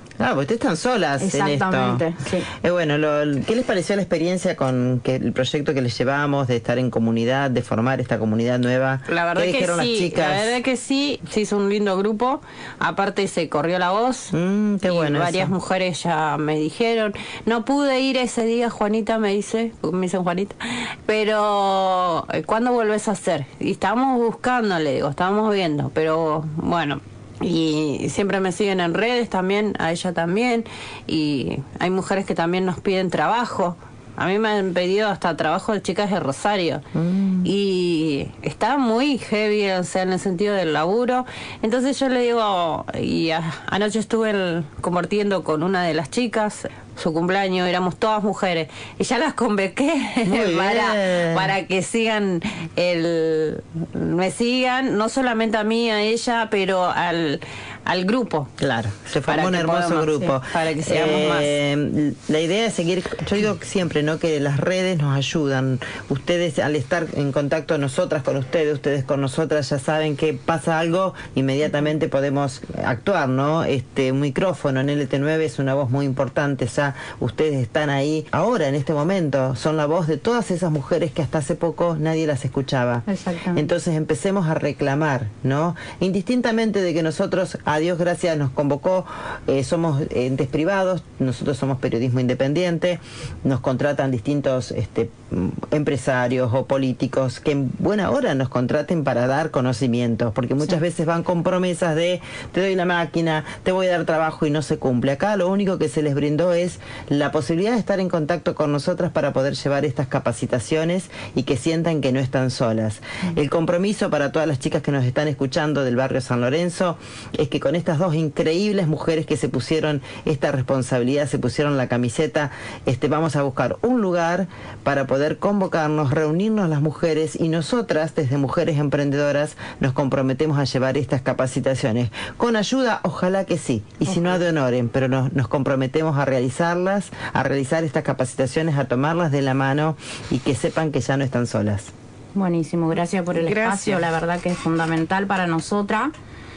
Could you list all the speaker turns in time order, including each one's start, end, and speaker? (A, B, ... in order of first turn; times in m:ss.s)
0:00.2-0:10.6 A
0:01.2-0:02.5 B
0:09.1-0:14.3 C
0:14.3-0:15.5 A
0:14.9-0:36.8 C
0:37.0-0:37.5 A
0:37.4-0:58.5 C
0:50.3-0:51.5 A
0:58.6-2:21.9 A
0:59.3-1:01.6 C
1:23.1-1:23.7 B
2:22.4-2:26.1 B
2:23.3-2:24.1 C